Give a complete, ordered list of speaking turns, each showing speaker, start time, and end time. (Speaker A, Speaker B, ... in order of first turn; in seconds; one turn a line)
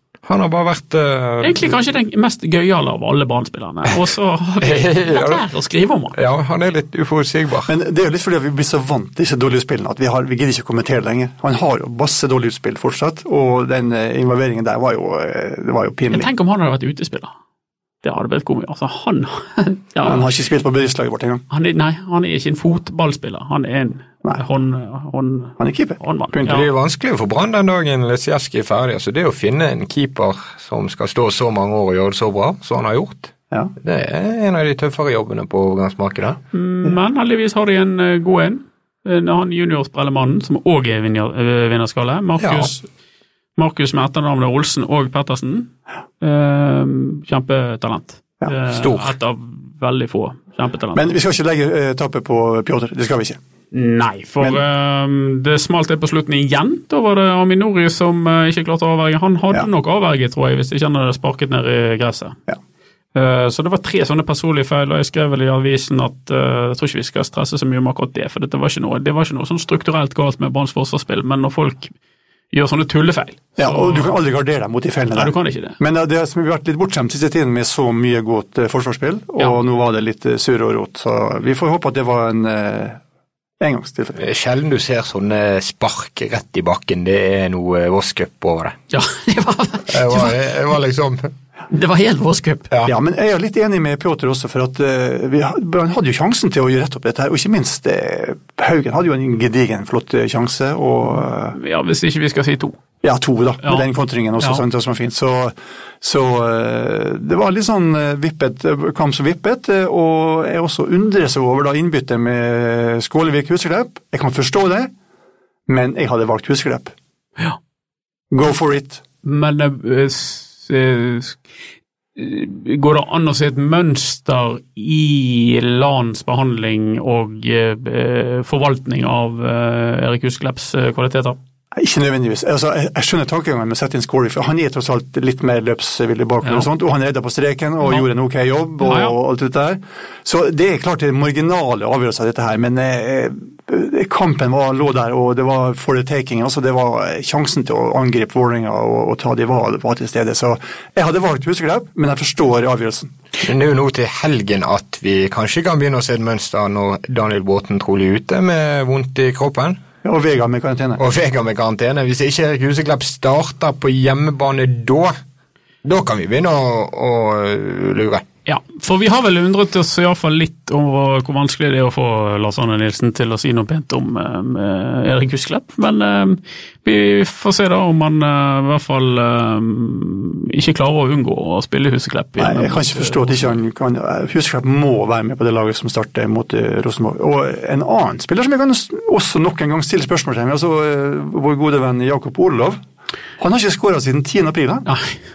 Speaker A: 0.2-1.8
Speaker B: 1.4-6.2
Speaker A: 4.6-5.5
Speaker A: 6.1-7.7
Speaker C: 7.7-16.3
Speaker B: 16.1-17.3
Speaker B: 18.0-20.3
Speaker C: 20.0-21.4
Speaker B: 21.5-26.6
Speaker C: 25.6-26.6
Speaker A: 26.4-36.4
Speaker B: 36.5-42.9
Speaker A: 42.4-42.7
Speaker B: 43.6-51.1
Speaker A: 48.7-49.1
Speaker C: 50.9-53.4
Speaker B: 53.7-62.4
Speaker B: 63.1-71.9
Speaker B: 72.5-74.2
Speaker C: 73.6-83.0
Speaker B: 75.2-75.8
Speaker C: 83.6-84.2
Speaker A: 84.2-88.8
Speaker B: 88.9-90.3
Speaker A: 89.9-91.3
Speaker B: 91.7-92.7
Speaker C: 92.9-101.6
Speaker B: 101.5-102.8
Speaker C: 103.0-114.9
Speaker C: 115.7-116.9
Speaker C: 118.3-119.0
Speaker B: 119.2-121.4
Speaker B: 122.2-131.4
Speaker C: 131.7-153.1
Speaker B: 138.8-139.2
Speaker A: 153.4-159.8
Speaker C: 160.0-161.0
Speaker A: 161.0-165.2
Speaker A: 165.8-168.2
Speaker B: 168.5-183.6
Speaker C: 182.4-192.8
Speaker C: 193.4-194.9
Speaker B: 194.9-195.2